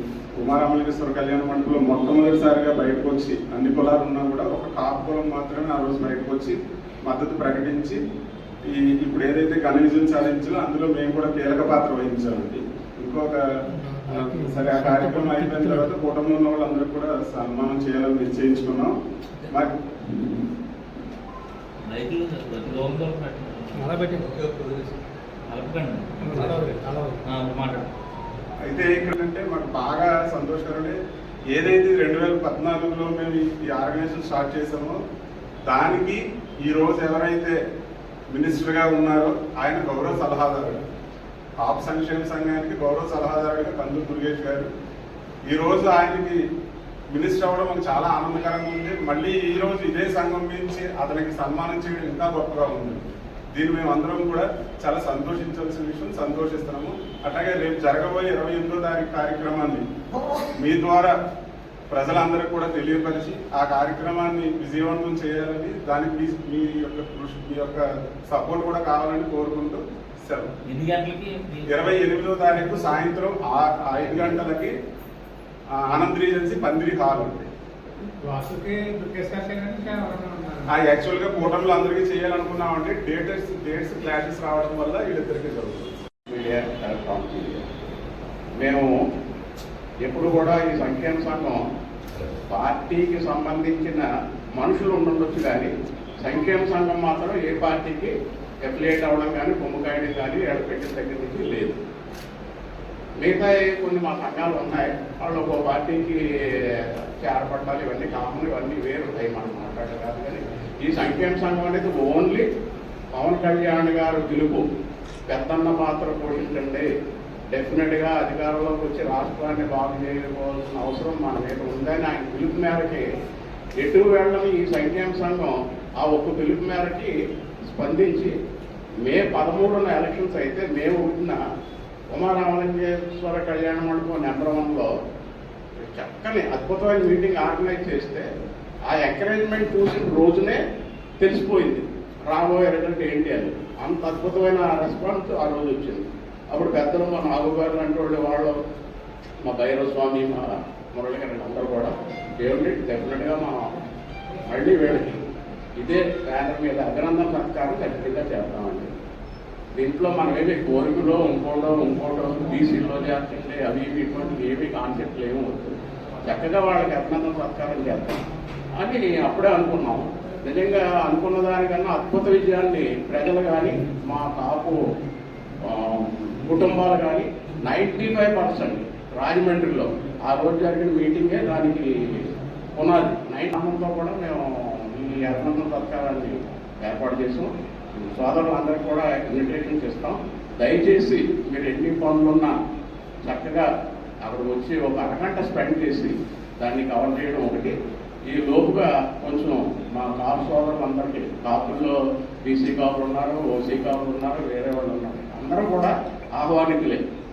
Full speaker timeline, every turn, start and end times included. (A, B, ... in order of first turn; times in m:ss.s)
0:00.4-0:08.0 A
0:08.7-0:13.4 A
0:13.7-0:15.9 B
0:14.1-0:18.9 A
0:19.5-0:19.8 A
0:21.8-0:24.9 C
0:23.8-0:24.4 B
0:25.5-0:27.9 C
0:26.2-0:27.3 B
0:28.6-0:31.0 A
0:31.5-0:35.0 A
0:35.7-0:37.6 A
0:38.3-0:40.8 A
0:41.6-0:44.7 A
0:45.5-0:46.4 A
0:47.1-0:59.8 A
1:00.5-1:01.1 A
1:01.9-1:10.5 A
1:10.6-1:12.1 C
1:11.7-1:14.7 A
1:15.8-1:17.5 A
1:18.2-1:20.7 B
1:20.7-1:26.0 A
1:26.3-1:27.6 D
1:28.6-1:28.9 D
1:30.0-1:31.6 D
1:32.3-1:35.7 D
1:36.2-1:41.8 D
1:43.2-1:46.6 D
1:47.2-1:52.4 D
1:53.1-1:54.6 D
1:55.3-1:56.9 D
1:57.5-2:03.0 D
2:03.8-2:07.1 D
2:07.7-2:08.3 D
2:09.0-2:11.4 D
2:12.1-2:14.9 D
2:15.9-2:18.3 D
2:18.9-2:20.6 D
2:21.2-2:28.6 D
2:29.4-2:33.7 D
2:34.5-2:35.2 D
2:35.8-2:38.9 D
2:39.8-2:48.2 D
2:48.7-2:54.8 D
2:55.6-3:12.6 D
3:13.2-3:13.7 D
3:14.2-3:17.7 D
3:18.3-3:27.0 D